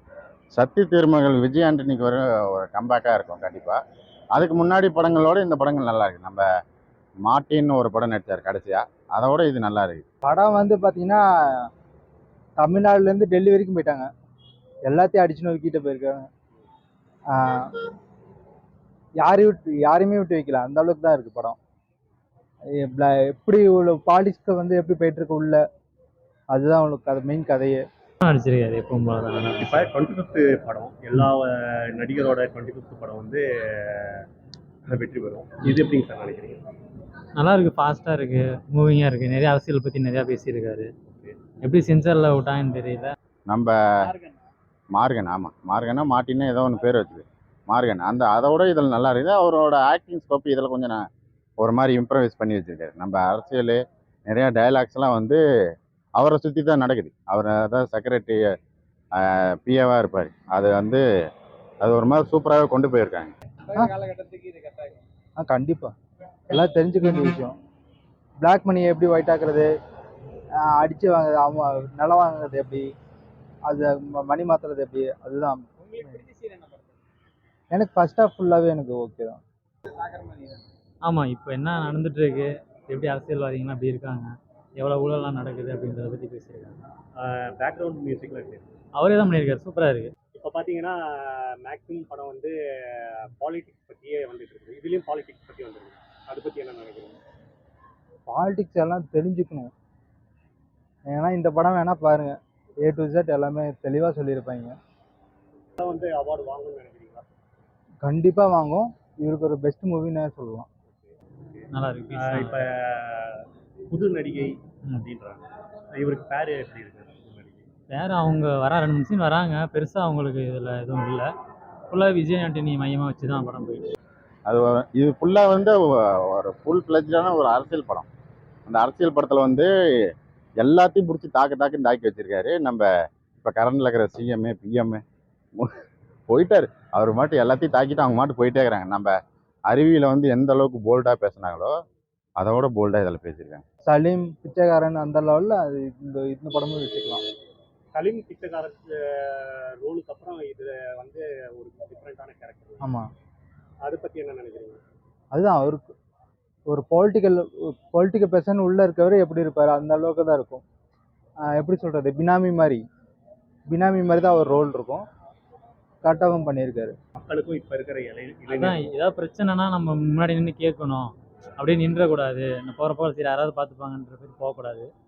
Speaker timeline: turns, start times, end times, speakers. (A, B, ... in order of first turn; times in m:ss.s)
0:00.5-0:03.8 A
0:04.3-0:06.4 A
0:07.2-0:10.0 A
0:10.2-0:11.7 B
0:12.6-0:14.1 B
0:14.8-0:16.3 B
0:17.3-0:17.8 B
0:19.2-0:21.6 B
0:22.7-0:25.6 B
0:26.5-0:27.8 B
0:28.2-0:29.8 C
0:29.6-0:34.3 D
0:34.9-0:36.6 D
0:37.4-0:40.9 C
0:41.1-0:41.4 D
0:41.6-0:43.1 C
0:43.5-0:43.8 A
0:44.0-0:44.4 E
0:44.9-0:51.0 A
0:51.6-0:55.4 A
0:56.2-0:58.5 A
0:59.2-1:01.0 A
1:01.8-1:03.3 A
1:03.6-1:05.0 E
1:05.4-1:05.9 B
1:06.5-1:07.6 B
1:08.4-1:09.7 B
1:10.6-1:12.9 B
1:13.6-1:16.2 B
1:15.8-1:17.0 E
1:17.7-1:19.4 B
1:19.9-1:20.6 E
1:21.0-1:26.8 C
1:27.2-1:28.6 D
1:29.0-1:30.1 C
1:30.3-1:37.2 D
1:38.3-1:39.7 B
1:41.1-1:44.7 B
1:45.8-1:47.2 D
1:48.0-1:50.7 B
1:51.5-1:57.7 D
1:51.7-1:52.6 C
1:57.9-2:01.3 C
2:01.9-2:03.9 C
2:04.4-2:08.1 A
2:08.7-2:12.9 A
2:13.4-2:15.0 A
2:16.3-2:19.1 A
2:19.7-2:21.7 A
2:22.4-2:23.6 A
2:23.8-2:27.2 B
2:27.9-2:32.9 D
2:32.8-2:33.1 B
2:33.8-2:34.8 D
2:35.3-2:35.9 B
2:36.7-2:40.6 B
2:41.4-2:42.8 B
2:43.7-2:45.0 B
2:46.0-2:46.9 B
2:47.2-2:48.8 D
2:48.5-2:54.9 C